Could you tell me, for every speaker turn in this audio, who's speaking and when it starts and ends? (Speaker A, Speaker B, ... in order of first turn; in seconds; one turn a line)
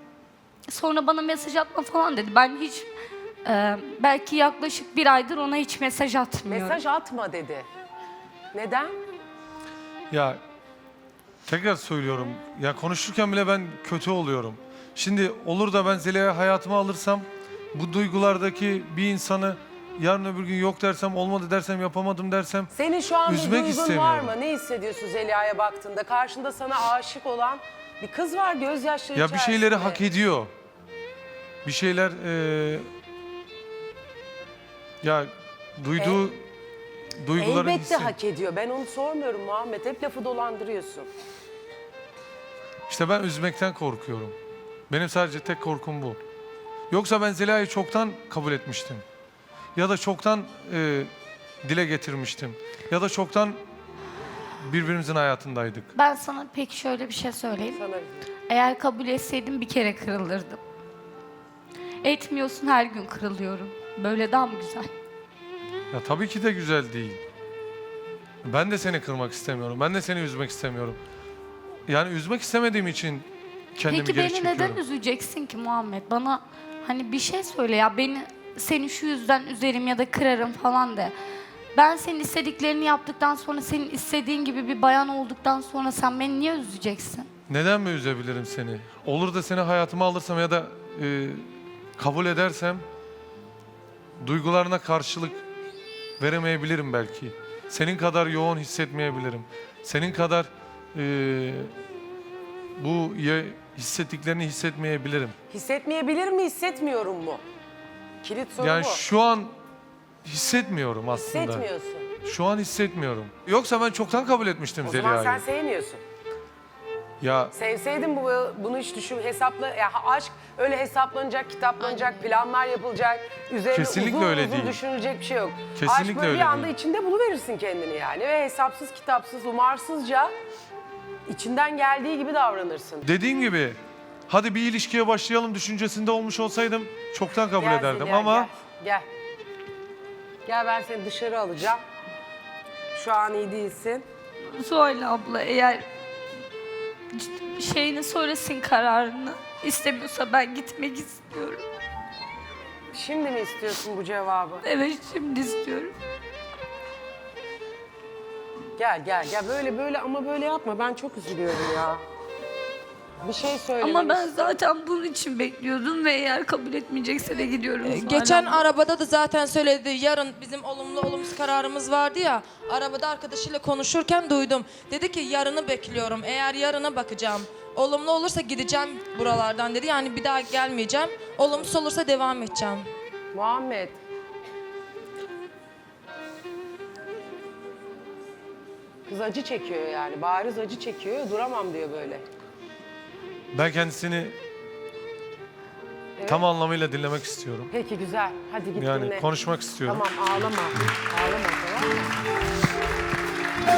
Speaker A: 0.7-2.9
Speaker A: 3.5-6.8
Speaker B: 6.5-7.7
Speaker B: 8.5-8.9
Speaker C: 10.1-10.4
Speaker C: 11.5-22.7
Speaker B: 22.7-30.0
Speaker C: 23.3-24.4
Speaker C: 29.1-30.5
Speaker C: 31.6-32.9
Speaker C: 35.0-36.5
Speaker C: 37.1-38.1
Speaker B: 37.4-41.1
Speaker C: 42.9-44.4
Speaker C: 44.9-46.2
Speaker C: 46.9-49.0
Speaker C: 49.8-51.1
Speaker C: 51.6-53.6
Speaker C: 54.6-55.9
Speaker A: 56.0-57.8
Speaker B: 57.7-58.3
Speaker A: 58.5-60.6
Speaker A: 62.0-64.9
Speaker C: 65.9-67.2
Speaker C: 68.4-71.0
Speaker C: 71.9-74.8
Speaker A: 73.9-81.1
Speaker A: 81.8-87.3
Speaker C: 87.5-92.8
Speaker C: 94.2-95.4
Speaker C: 96.2-101.7
Speaker C: 102.8-105.4
Speaker B: 105.5-107.4
Speaker B: 108.2-109.0
Speaker C: 108.6-109.6
Speaker C: 110.2-111.7
Speaker B: 111.1-112.1
Speaker C: 112.2-115.4
Speaker B: 114.8-116.0
Speaker C: 117.2-117.5
Speaker B: 117.5-130.3
Speaker C: 123.7-124.8
Speaker C: 125.8-126.7
Speaker B: 131.3-133.1
Speaker C: 133.1-138.5
Speaker B: 137.6-139.1
Speaker B: 140.5-141.8
Speaker B: 142.9-144.1
Speaker A: 144.5-145.9
Speaker A: 147.1-151.7
Speaker B: 152.9-154.6
Speaker A: 154.6-155.9
Speaker B: 158.8-162.0
Speaker B: 163.2-164.6
Speaker A: 163.8-168.6
Speaker D: 167.8-182.9
Speaker B: 183.3-184.0
Speaker B: 189.1-192.2
Speaker C: 193.5-194.4
Speaker B: 196.2-196.4
Speaker C: 196.3-197.7
Speaker B: 197.7-199.3
Speaker C: 198.8-200.0
Speaker B: 199.9-202.1